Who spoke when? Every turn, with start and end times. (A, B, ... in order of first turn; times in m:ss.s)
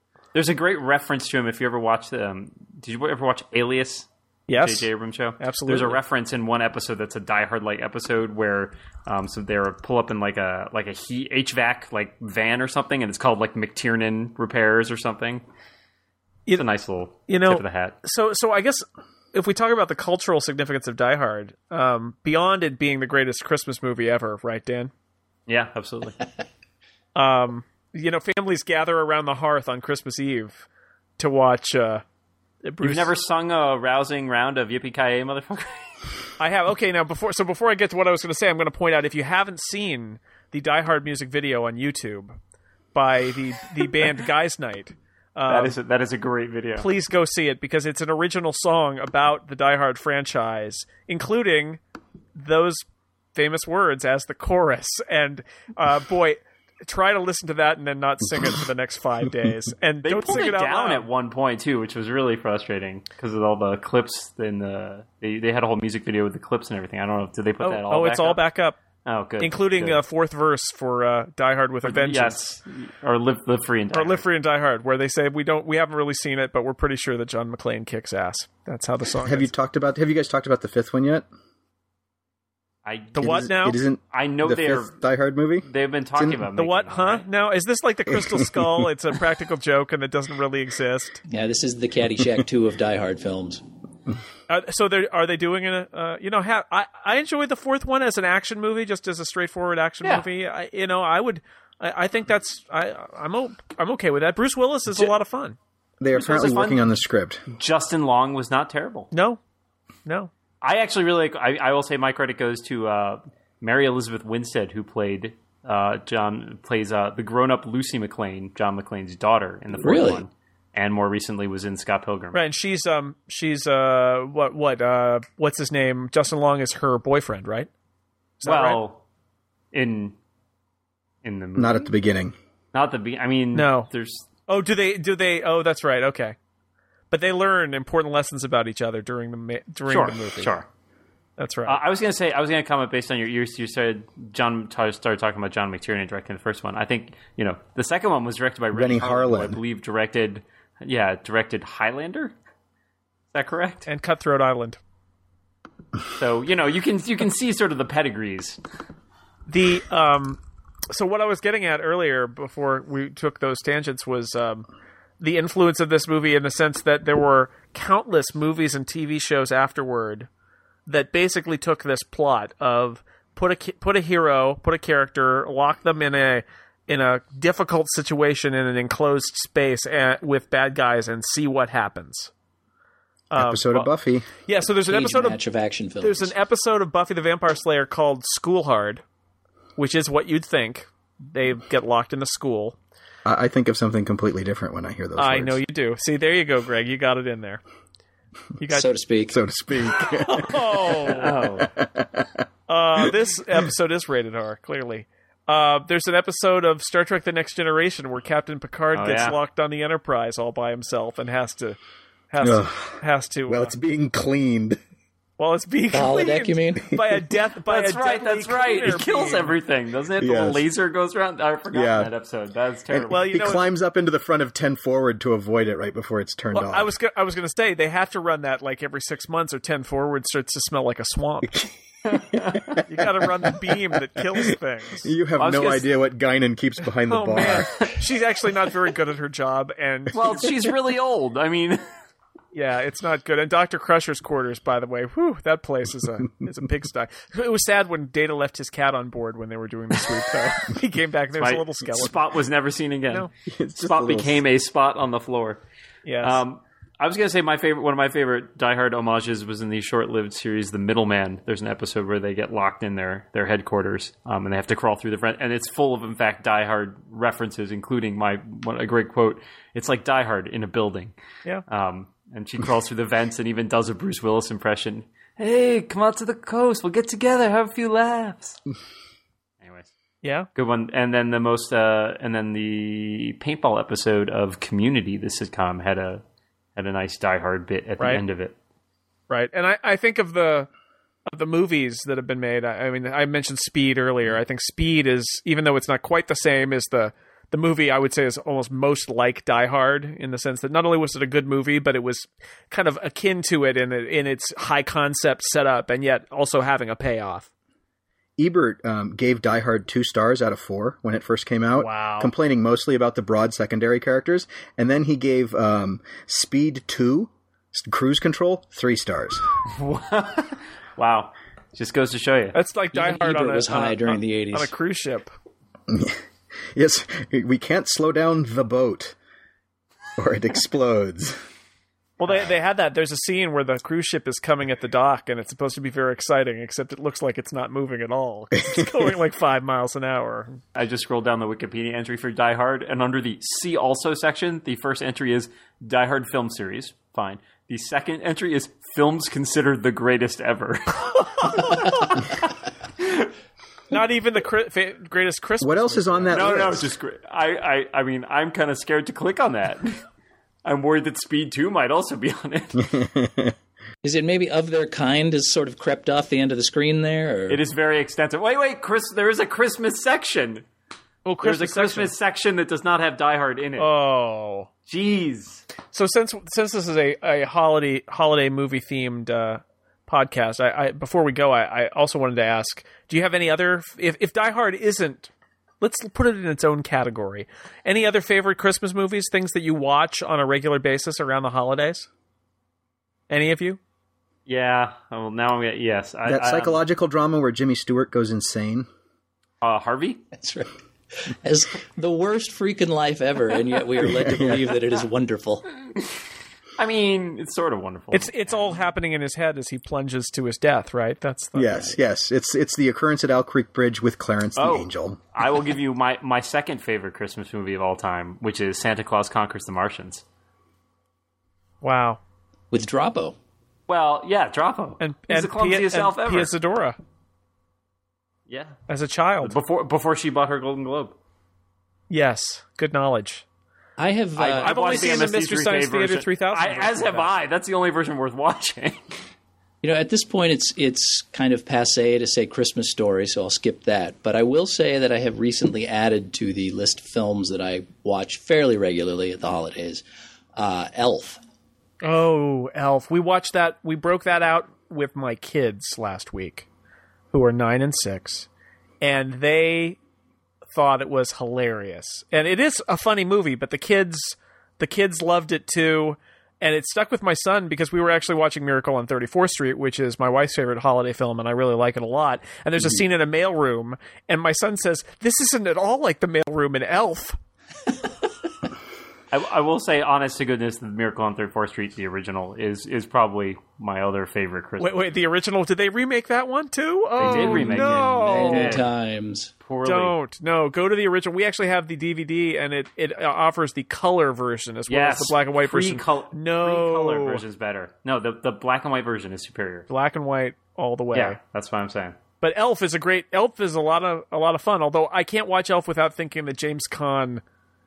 0:00.3-0:15.4 A
0:04.5-0:06.0 B
0:16.5-0:18.0 A
0:17.3-0:24.9 B
0:25.5-0:26.2 A
0:27.2-0:30.6 B
0:31.2-0:32.0 B
0:32.6-0:33.1 B
0:32.8-0:36.0 A
0:36.4-0:42.4 B
0:42.9-0:45.7 B
0:45.5-0:46.9 A
0:46.8-0:51.8 B
0:52.3-1:01.0 B
1:00.0-1:08.4 A
1:07.6-1:08.8 B
1:09.0-1:10.0 A
1:09.4-1:12.4 B
1:11.8-1:14.2 A
1:13.9-1:19.5 B
1:19.2-1:21.2 C
1:22.8-1:23.2 A
1:23.2-1:23.8 B
1:23.2-1:26.4 C
1:24.1-1:24.9 A
1:25.6-1:27.2 A
1:26.5-1:31.2 B
1:31.3-1:33.6 D
1:34.5-1:45.6 B
1:46.0-1:47.4 C
1:46.1-1:47.0 A
1:47.5-1:49.1 A
1:49.1-1:49.4 B
1:50.0-1:50.3 B
1:50.6-2:02.4 A
1:59.8-2:00.2 D
2:02.3-2:07.7 B
2:08.4-2:08.8 B
2:08.4-2:09.0 A
2:09.7-2:10.2 A
2:11.2-2:11.9 A
2:11.6-2:12.3 C
2:12.7-2:14.3 A
2:13.5-2:13.9 B
2:14.5-2:16.4 B
2:17.1-2:20.5 B
2:19.9-2:20.6 A
2:21.4-2:21.8 B
2:21.6-2:32.3 A
2:28.7-2:29.6 C
2:33.3-2:33.9 A
2:33.9-2:34.8 B
2:36.1-2:38.6 A
2:39.5-2:44.6 B
2:45.2-2:50.3 B
2:50.9-3:02.3 B
3:03.3-3:03.9 B
3:03.3-3:04.3 C
3:04.4-3:05.4 B
3:04.9-3:06.3 D
3:06.0-3:09.0 B
3:09.8-3:12.8 B
3:13.2-3:15.6 C
3:15.2-3:17.6 B
3:18.6-3:18.9 B
3:18.7-3:19.4 D
3:19.3-3:22.2 C
3:20.0-3:21.4 B
3:21.1-3:21.7 A
3:22.7-3:31.8 B
3:28.9-3:29.4 A
3:32.3-3:33.7 B
3:32.4-3:34.8 C
3:35.4-3:39.5 B
3:35.9-3:36.9 D
3:37.7-3:43.3 A
3:40.2-3:40.7 C
3:41.7-3:42.1 C
3:42.9-3:46.9 C
3:43.1-3:43.7 B
3:46.5-3:51.6 B
3:51.5-3:53.6 C
3:52.3-3:52.6 A
3:52.9-3:55.1 B
3:55.0-3:57.9 C
3:55.4-3:55.9 A
3:57.1-4:00.5 B
4:00.1-4:01.8 A
4:02.5-4:12.2 B
4:11.4-4:13.3 A
4:13.5-4:14.4 C
4:13.8-4:15.6 A
4:16.0-4:16.4 B
4:16.2-4:31.1 A
4:31.7-4:38.6 A
4:39.6-4:39.9 A
4:40.2-4:40.5 B
4:40.5-4:46.2 A
4:46.8-4:48.5 A
4:49.3-4:50.7 B
4:51.3-5:07.5 B
5:08.4-5:19.4 C
5:11.8-5:12.3 B
5:19.7-5:22.6 A
5:22.5-5:25.3 B
5:22.9-5:24.7 D
5:25.9-5:26.2 C
5:26.7-5:29.2 C
5:30.2-5:31.4 C
5:32.2-5:40.6 B
5:40.7-5:52.4 A
5:51.4-5:51.9 B
5:53.0-5:53.3 A
5:53.9-5:56.6 B
5:55.6-5:56.9 C
5:56.3-6:00.0 A
6:00.6-6:02.9 A
6:02.8-6:03.5 C
6:04.0-6:07.6 D
6:07.5-6:10.6 A
6:11.2-6:12.1 B
6:11.4-6:13.9 A
6:13.8-6:14.7 B
6:14.9-6:15.6 A
6:15.9-6:32.1 B
6:33.3-6:33.8 B
6:34.4-6:36.8 A
6:36.2-6:38.9 C
6:39.6-6:40.2 A
6:40.4-6:45.7 D
6:44.1-6:44.7 C
6:46.8-6:48.5 A
6:48.1-6:52.0 B
6:51.6-6:55.2 C
6:54.6-7:00.2 A
7:01.8-7:02.2 B
7:02.7-7:03.4 D
7:03.9-7:06.5 A
7:05.0-7:07.0 B
7:08.5-7:08.8 A
7:08.9-7:09.6 B
7:09.4-7:11.2 A
7:12.1-7:13.4 B
7:14.0-7:15.0 D
7:14.4-7:19.1 A
7:14.6-7:17.3 B
7:19.8-7:30.0 D
7:30.5-7:31.4 D
7:32.0-7:36.6 B
7:37.3-7:38.5 B
7:39.0-7:40.0 B
7:40.7-7:57.4 B
7:59.3-8:05.0 A
8:04.8-8:08.8 B
8:07.2-8:08.9 A
8:07.2-8:09.5 D
8:09.6-8:10.2 A
8:09.8-8:17.4 B
8:14.9-8:19.9 A
8:19.9-8:21.4 B
8:21.1-8:22.2 A
8:22.4-8:27.4 B